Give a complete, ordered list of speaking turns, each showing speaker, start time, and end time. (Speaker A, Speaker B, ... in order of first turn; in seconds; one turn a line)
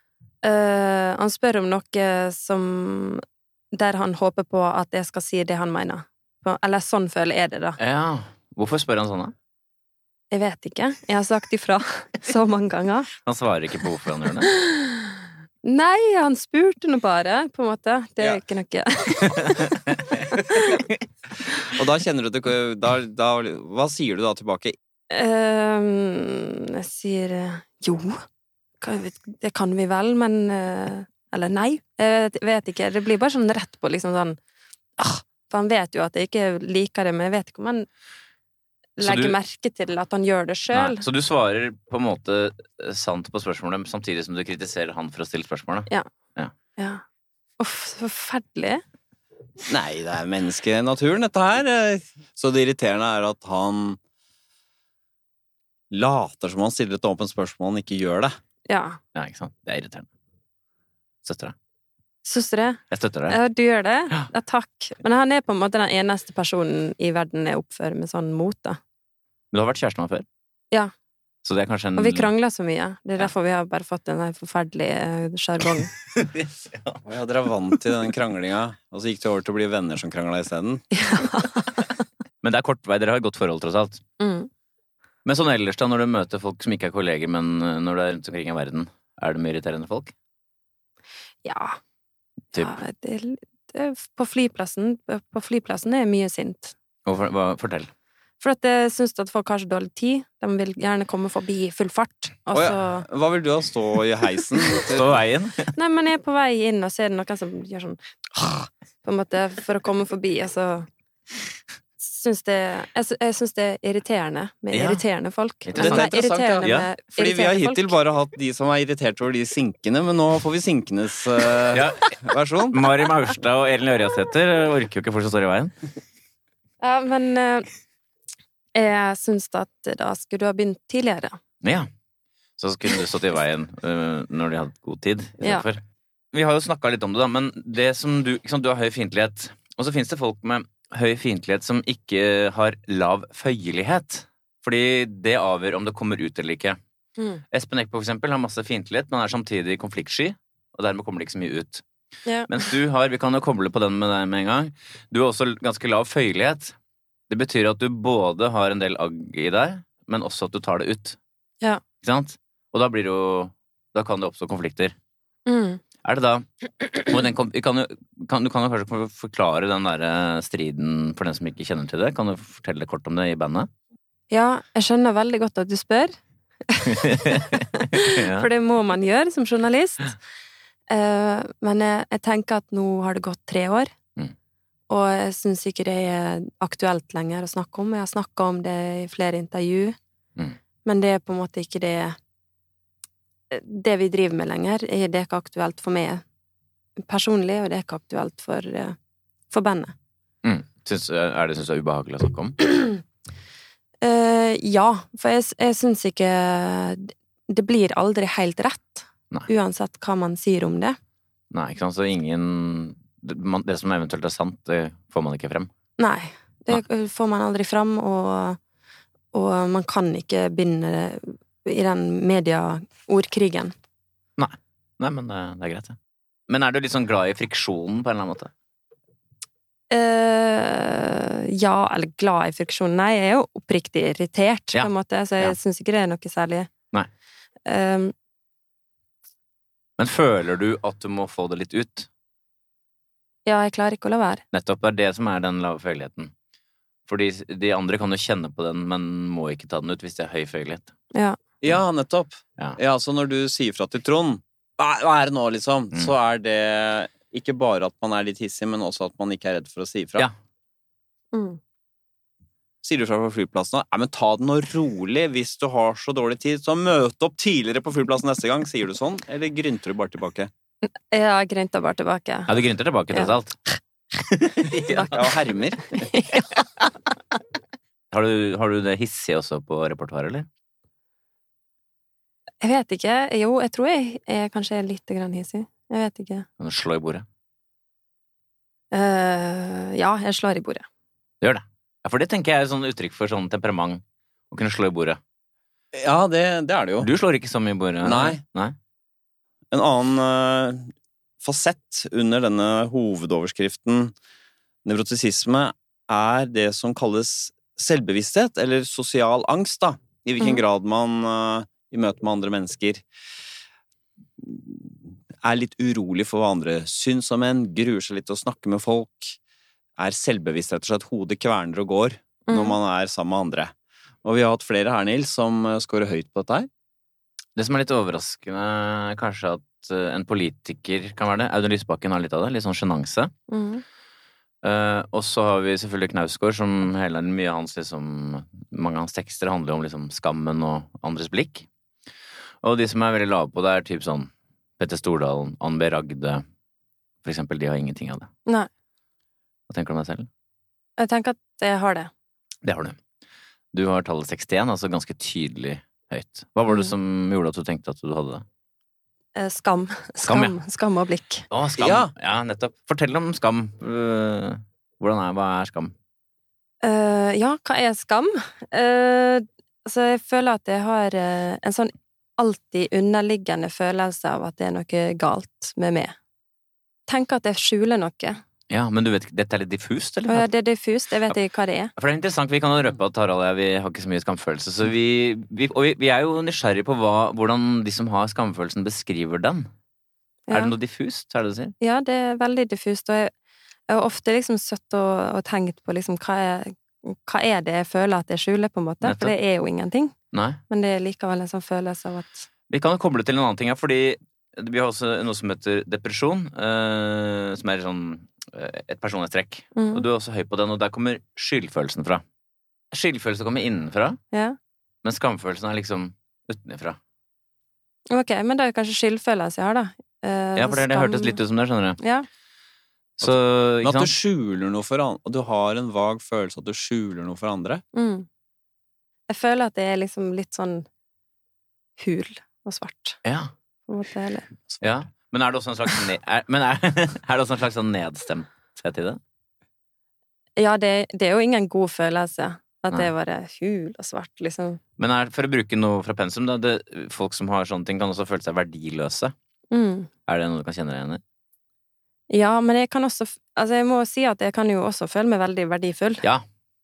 Speaker A: 0.4-7.8
Speaker B: 7.8-9.3
Speaker A: 10.3-13.1
Speaker B: 13.2-14.5
Speaker A: 14.4-20.8
Speaker B: 19.3-19.6
Speaker C: 21.7-24.7
Speaker A: 25.1-28.2
Speaker A: 28.8-34.4
Speaker A: 35.0-37.9
Speaker A: 39.0-41.0
Speaker B: 39.0-39.4
Speaker B: 40.7-46.5
Speaker A: 46.8-47.0
Speaker A: 47.6-48.8
Speaker C: 49.6-54.0
Speaker C: 55.9-58.3
Speaker A: 58.7-59.0
Speaker B: 59.1-60.1
Speaker B: 61.2-61.5
Speaker A: 62.2-68.8
Speaker B: 62.9-63.4
Speaker B: 69.5-70.2
Speaker B: 71.4-72.3
Speaker A: 72.0-76.0
Speaker B: 76.1-77.0
Speaker C: 77.0-80.8
Speaker A: 80.9-81.8
Speaker B: 82.4-84.0
Speaker A: 84.2-84.5
Speaker B: 85.2-90.1
Speaker A: 91.4-91.8
Speaker A: 92.5-96.7
Speaker B: 97.0-97.9
Speaker A: 98.4-103.0
Speaker C: 102.5-105.2
Speaker B: 104.7-105.7
Speaker A: 105.7-110.9
Speaker A: 112.0-117.9
Speaker B: 114.7-115.0
Speaker B: 115.6-116.9
Speaker C: 115.8-122.9
Speaker B: 121.7-125.7
Speaker A: 126.8-127.7
Speaker A: 128.7-131.4
Speaker B: 131.6-131.9
Speaker B: 132.6-135.8
Speaker A: 135.4-135.7
Speaker B: 136.3-146.8
Speaker B: 147.5-151.8
Speaker A: 152.2-152.5
Speaker B: 152.5-156.7
Speaker B: 157.3-161.2
Speaker B: 162.0-164.9
Speaker A: 165.4-165.8
Speaker B: 166.0-173.7
Speaker A: 174.3-176.2
Speaker A: 176.7-180.2
Speaker B: 176.9-178.5
Speaker A: 180.9-183.9
Speaker A: 184.9-190.0
Speaker A: 190.8-192.2
Speaker A: 193.5-196.2
Speaker A: 197.1-198.9
Speaker A: 199.5-199.9
Speaker B: 200.4-202.6
Speaker A: 202.7-203.0
Speaker A: 204.0-211.0
Speaker B: 211.5-215.7
Speaker A: 216.0-218.6
Speaker A: 219.3-223.7
Speaker B: 224.4-226.0
Speaker B: 226.5-228.5
Speaker A: 229.9-236.7
Speaker B: 234.7-235.5
Speaker A: 237.7-238.1
Speaker B: 240.0-242.1
Speaker A: 243.4-244.4
Speaker B: 244.5-246.3
Speaker B: 247.1-250.9
Speaker C: 251.6-260.3
Speaker A: 261.3-261.6
Speaker C: 262.8-270.5
Speaker A: 271.1-272.5
Speaker B: 272.5-273.6
Speaker B: 274.2-275.3
Speaker A: 274.6-275.2
Speaker C: 275.1-275.8
Speaker A: 275.9-276.9
Speaker B: 278.1-280.5
Speaker A: 282.6-286.4
Speaker B: 286.6-287.2
Speaker A: 288.9-290.9
Speaker B: 291.4-295.2
Speaker C: 295.9-297.1
Speaker B: 297.0-298.7
Speaker C: 298.0-298.4
Speaker C: 299.7-300.9
Speaker C: 301.4-304.1
Speaker C: 304.8-313.0
Speaker C: 314.4-319.4
Speaker C: 320.0-323.7
Speaker A: 322.5-322.8
Speaker C: 324.2-326.7
Speaker B: 327.6-333.3
Speaker A: 333.5-333.8
Speaker B: 334.6-341.6
Speaker B: 342.6-346.4
Speaker B: 347.2-348.3
Speaker B: 349.7-350.3
Speaker A: 351.0-352.1
Speaker B: 352.6-352.9
Speaker B: 353.7-358.4
Speaker A: 359.4-361.4
Speaker B: 360.2-360.6
Speaker B: 361.5-365.9
Speaker C: 361.8-362.1
Speaker A: 366.8-376.1
Speaker A: 377.1-378.4
Speaker B: 378.7-380.5
Speaker A: 380.3-381.9
Speaker B: 381.9-389.7
Speaker A: 390.5-390.7
Speaker B: 390.5-391.7
Speaker A: 391.8-393.3
Speaker A: 393.9-400.1
Speaker B: 399.0-399.3
Speaker B: 400.3-400.6
Speaker A: 400.7-402.4
Speaker B: 402.7-412.2
Speaker A: 409.8-410.0
Speaker B: 412.9-414.2
Speaker A: 414.3-414.6
Speaker B: 415.0-417.0
Speaker A: 418.1-421.4
Speaker B: 420.6-422.0
Speaker A: 422.0-422.3
Speaker B: 423.2-424.1
Speaker C: 423.2-427.8
Speaker A: 427.9-428.3
Speaker A: 429.3-430.9
Speaker A: 432.0-433.2
Speaker B: 433.2-433.5
Speaker A: 433.9-434.4
Speaker B: 434.8-439.2
Speaker A: 440.6-444.8
Speaker B: 445.0-449.3
Speaker A: 449.7-450.1
Speaker B: 450.3-451.2
Speaker A: 452.3-456.2